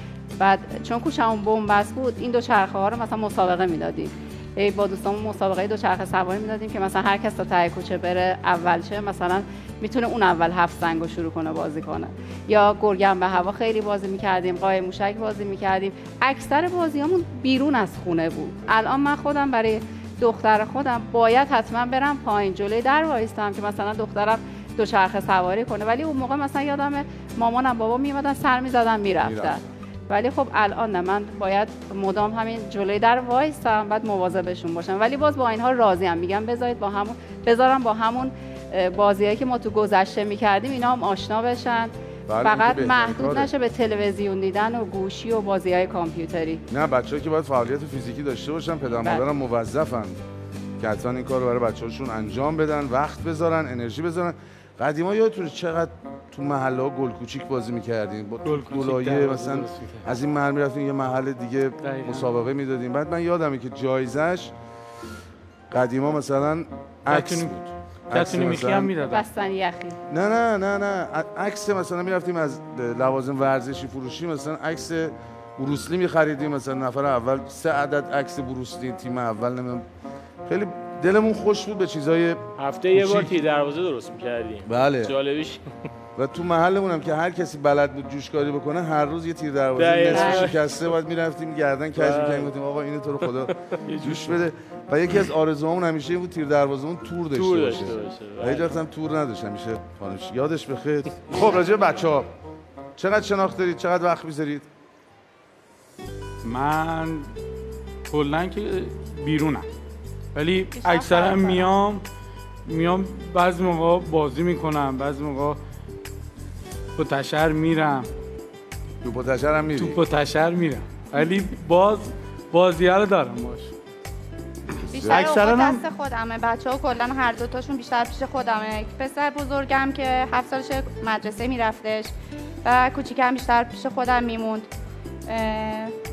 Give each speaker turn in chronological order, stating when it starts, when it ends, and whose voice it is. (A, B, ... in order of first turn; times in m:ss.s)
0:00.4-0:46.6 A
0:29.2-0:29.7 B
0:42.3-0:43.5 B
0:46.7-0:50.2 B
0:50.8-1:04.5 B
0:58.4-1:00.1 C
1:01.8-1:02.3 C
1:05.7-1:08.9 B
1:07.1-1:07.6 C
1:08.1-1:09.2 C
1:09.0-1:10.0 A
1:10.1-1:19.9 B
1:20.5-1:22.4 B
1:22.6-1:25.6 D
1:22.9-1:23.3 B
1:24.7-1:25.1 B
1:26.2-1:42.3 B
1:29.8-1:30.6 D
1:30.1-1:30.5 A
1:32.0-1:32.5 D
1:33.5-1:34.3 D
1:37.3-1:38.8 D
1:43.0-1:44.7 B
1:46.4-1:47.3 C
1:48.1-1:49.7 C
1:50.4-1:52.0 C
1:50.8-1:51.7 E
1:52.7-1:55.6 C
1:57.0-1:58.1 C
1:59.0-2:00.0 B
1:59.8-2:03.7 C
2:04.9-2:12.1 E
2:05.0-2:05.3 B
2:05.0-2:05.8 C
2:12.6-2:14.7 E
2:15.3-2:15.9 E